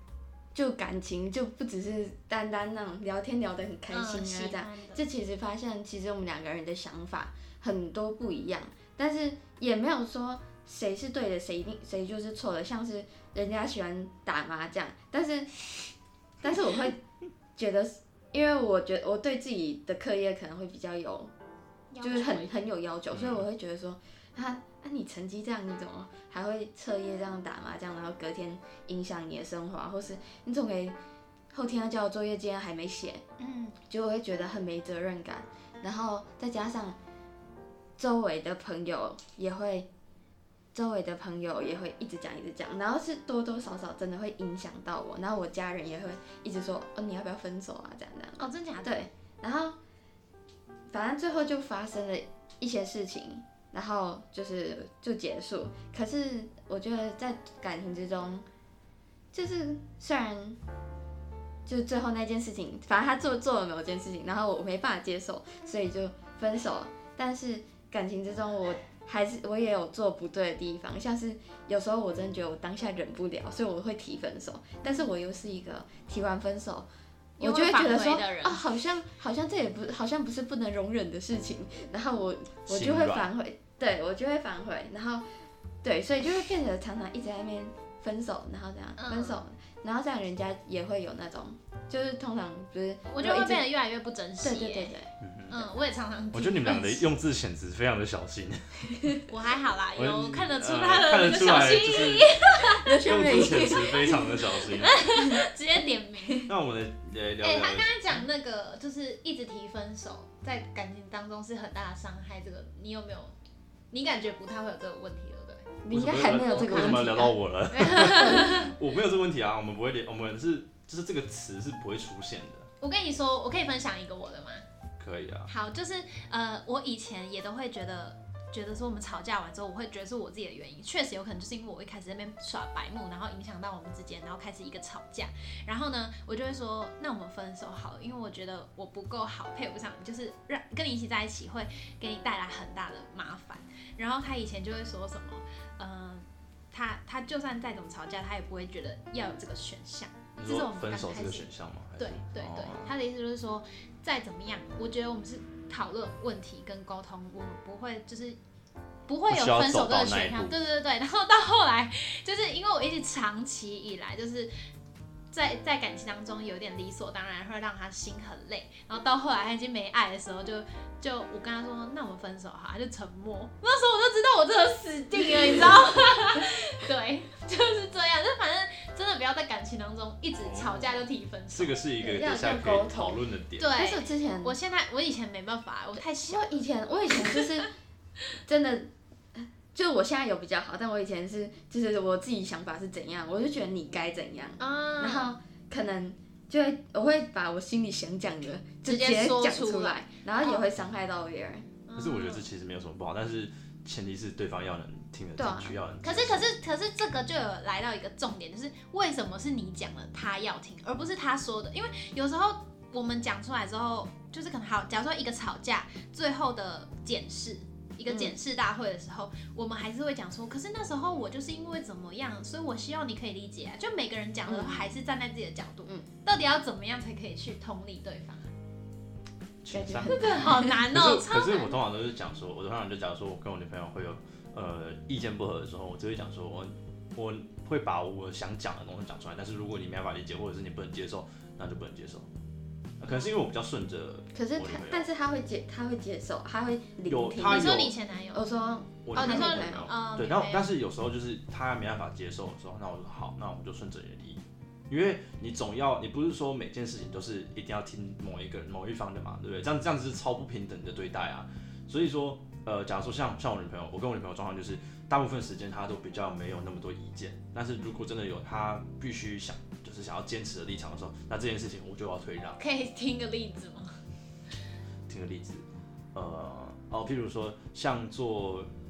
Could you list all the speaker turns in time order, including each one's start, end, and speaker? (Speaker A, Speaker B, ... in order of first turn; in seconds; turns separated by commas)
Speaker A: 0.5-15.5, Speaker B: 3.9-5.0, Speaker A: 16.4-17.0, Speaker A: 17.6-21.3, Speaker B: 21.9-22.7, Speaker A: 22.0-31.0, Speaker C: 23.1-23.4, Speaker A: 31.5-33.2, Speaker B: 33.4-33.8, Speaker A: 33.9-37.0, Speaker A: 38.0-39.9, Speaker A: 40.7-49.8, Speaker B: 48.4-49.1, Speaker A: 50.9-58.5, Speaker A: 59.3-60.6, Speaker A: 61.6-76.9, Speaker B: 77.4-78.6, Speaker A: 77.4-85.3, Speaker C: 82.7-83.3, Speaker A: 85.8-93.7, Speaker B: 89.0-89.4, Speaker B: 93.1-95.0, Speaker A: 94.4-95.1, Speaker C: 95.2-95.7, Speaker B: 95.5-97.1, Speaker C: 96.3-99.2, Speaker B: 99.3-106.5, Speaker C: 100.0-102.4, Speaker A: 102.6-105.4, Speaker C: 103.0-105.1, Speaker C: 106.5-108.2, Speaker B: 107.4-113.3, Speaker B: 113.9-115.8, Speaker A: 115.8-117.3, Speaker C: 115.9-122.7, Speaker B: 116.3-117.1, Speaker B: 117.7-118.8, Speaker A: 118.2-118.6, Speaker B: 122.8-124.7, Speaker C: 125.0-125.5, Speaker B: 125.5-151.5, Speaker C: 150.4-152.9, Speaker B: 152.0-158.4, Speaker B: 159.1-164.5, Speaker C: 159.3-160.6, Speaker B: 165.3-181.8, Speaker A: 175.2-176.5, Speaker C: 180.4-183.7, Speaker A: 182.0-184.6, Speaker B: 183.6-187.7, Speaker A: 185.9-187.7, Speaker A: 188.5-201.7, Speaker B: 194.6-195.3, Speaker B: 198.8-200.7, Speaker B: 201.9-202.5, Speaker C: 201.9-206.5, Speaker A: 205.4-205.8, Speaker B: 206.0-228.5, Speaker A: 218.1-218.4, Speaker A: 224.4-224.9, Speaker C: 229.6-242.3, Speaker A: 229.7-230.9, Speaker B: 230.1-231.8, Speaker C: 243.0-245.1, Speaker A: 244.3-249.9, Speaker C: 247.1-248.0, Speaker B: 247.4-248.5, Speaker C: 249.1-272.6, Speaker B: 249.2-250.7, Speaker B: 272.6-274.0, Speaker C: 275.1-278.7